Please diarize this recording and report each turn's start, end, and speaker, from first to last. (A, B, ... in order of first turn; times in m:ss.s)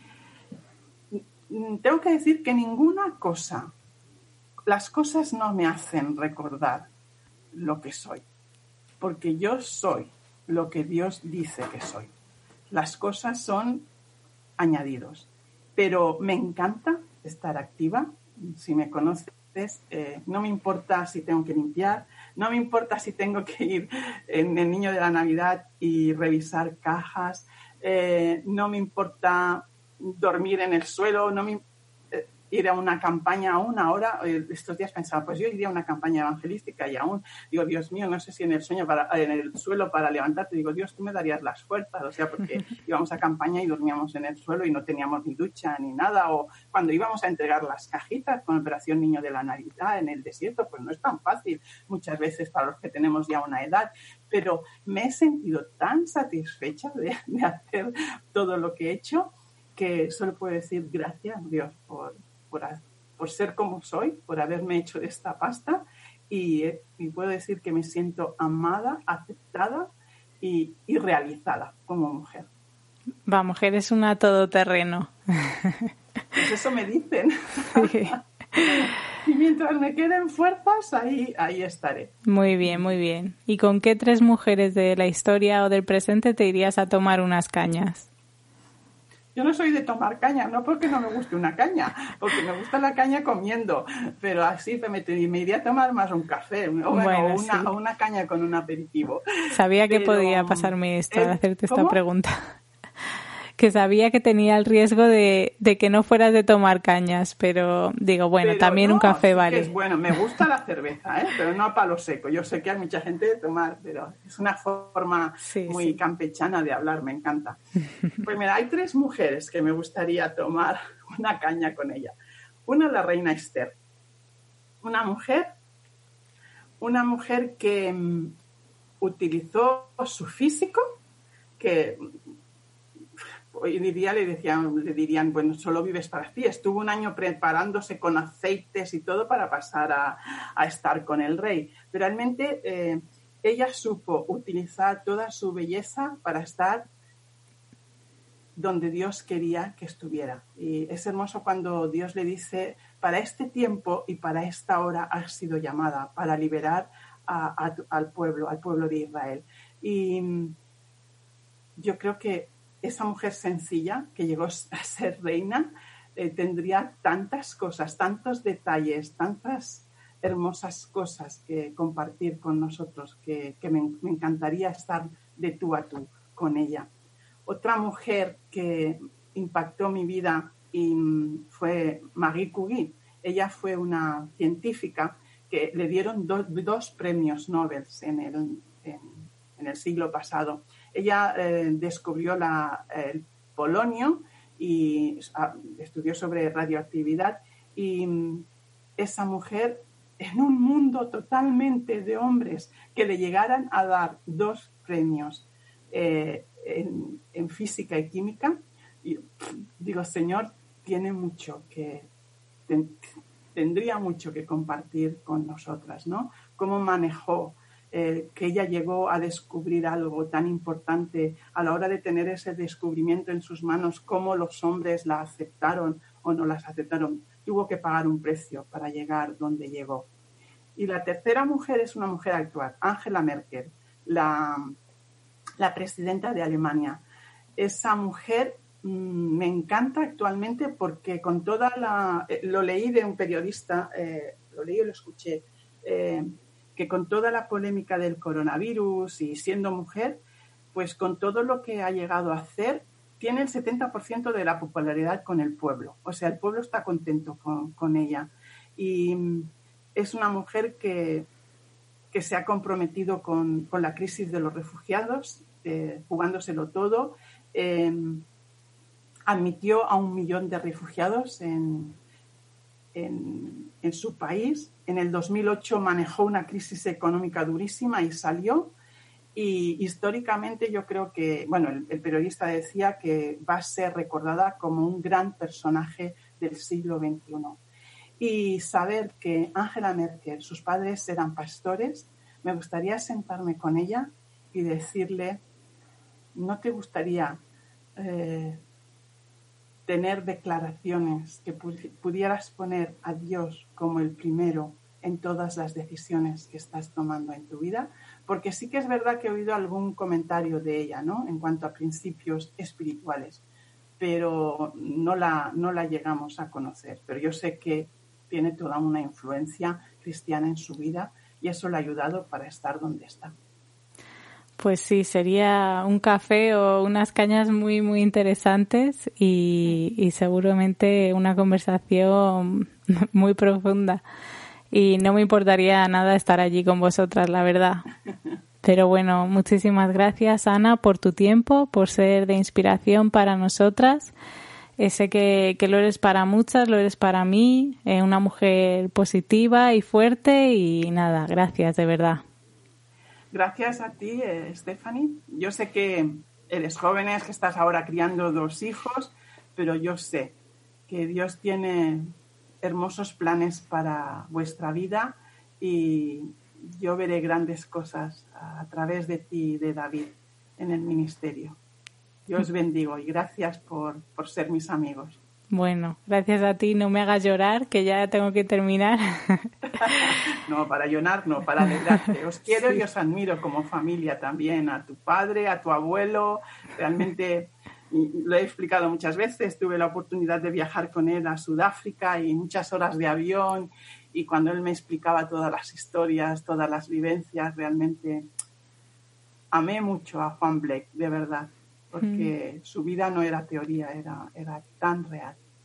0:01.1-0:03.7 A
0:04.7-0:06.9 A
0:07.5-0:08.2 A
0:09.0-0:12.1 A
0:12.7-0:13.9 A
0:14.6-1:12.5 A
1:13.2-1:15.9 B
1:16.3-1:22.8 A
1:17.7-1:18.2 B
1:22.2-1:28.1 B
1:29.3-1:39.2 A
1:36.9-1:37.7 B
1:39.5-1:42.4 B
1:39.9-1:42.0 A
1:43.6-1:49.7 B
1:48.4-1:57.6 A
1:55.4-1:56.0 B
1:58.2-2:02.1 A
2:02.6-2:03.8 A
2:04.8-2:05.5 A
2:06.8-2:08.4 A
2:09.0-2:10.8 A
2:11.6-2:12.2 A
2:13.5-2:26.8 A
2:28.6-2:40.6 A
2:41.8-2:56.9 A
2:57.4-3:18.5 A
3:19.0-3:32.1 A
3:32.7-3:50.1 A
3:50.8-3:54.8 A
3:55.6-3:57.0 A
3:57.6-4:10.2 A
4:10.7-4:21.3 A
4:22.1-4:28.2 A
4:29.3-4:32.0 A
4:32.9-4:38.7 A
4:39.3-4:47.6 A
4:48.2-4:55.4 A
4:56.3-4:57.4 A
4:58.0-4:58.6 A
4:59.8-5:13.4 A
5:14.0-5:23.3 A
5:24.6-5:34.0 B
5:34.7-5:37.9 B
5:38.6-5:44.1 B
5:44.8-5:52.2 B
5:53.3-6:00.4 A
6:00.9-6:11.6 A
6:12.2-6:15.2 A
6:15.5-6:19.5 B
6:19.8-6:38.3 A
6:39.5-6:45.4 A